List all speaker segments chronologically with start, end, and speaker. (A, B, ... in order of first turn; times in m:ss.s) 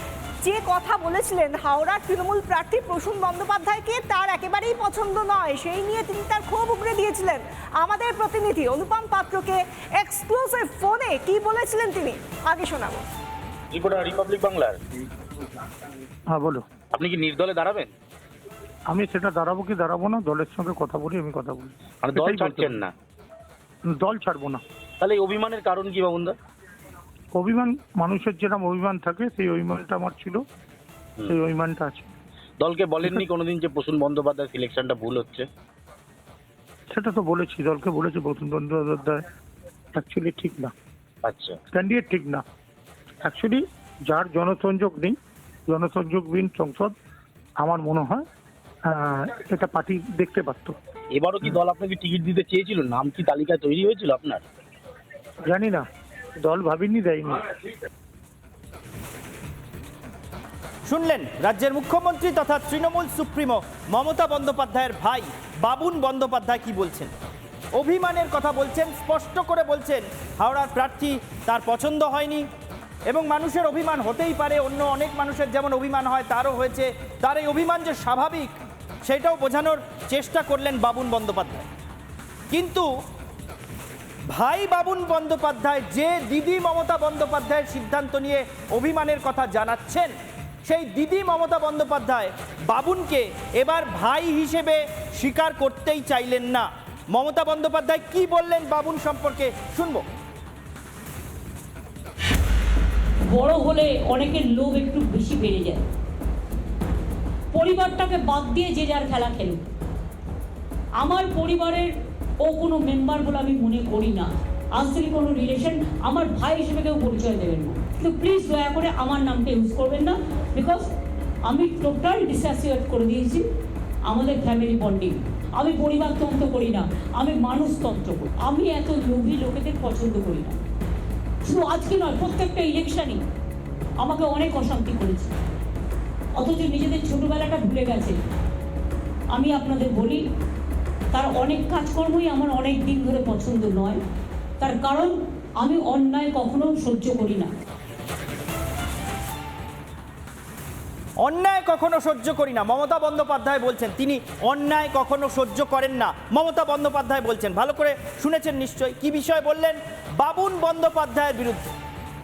0:00.4-0:13.0 A
0:13.7-0:14.8 B
0:16.3-0:16.6 C
0:16.9-0:17.9 B
0:18.9-0:22.8 C
0:22.0-0:22.9 B
0:23.8-0:24.6 C
0:25.0-0:26.4 B
0:27.3-0:30.4 C
0:31.2-0:32.1 C
0:32.6-0:35.5 B
0:36.9-0:39.2 C
0:39.9-0:40.7 C
0:41.2-0:41.6 B
0:41.7-0:42.4 C
0:43.2-0:45.2 C
0:45.7-0:46.9 C
0:47.6-0:48.2 C
0:48.8-0:50.8 C
0:51.1-0:54.4 B
0:55.4-0:55.8 C
0:56.4-0:57.5 C
1:00.8-1:07.1 D
1:07.7-1:12.4 D
1:13.1-1:21.7 D
1:22.5-1:22.9 D
1:24.3-1:30.1 D
1:30.6-1:40.0 D
1:43.3-1:45.8 E
1:47.5-1:49.7 E
1:51.0-1:51.9 E
1:52.4-2:00.9 E
2:01.4-2:03.4 E
2:04.1-2:10.6 E
2:11.4-2:13.2 E
2:14.0-2:15.3 E
2:16.4-2:18.2 E
2:19.3-2:20.2 E
2:21.1-2:24.0 E
2:24.6-2:27.5 E
2:31.2-2:41.7 D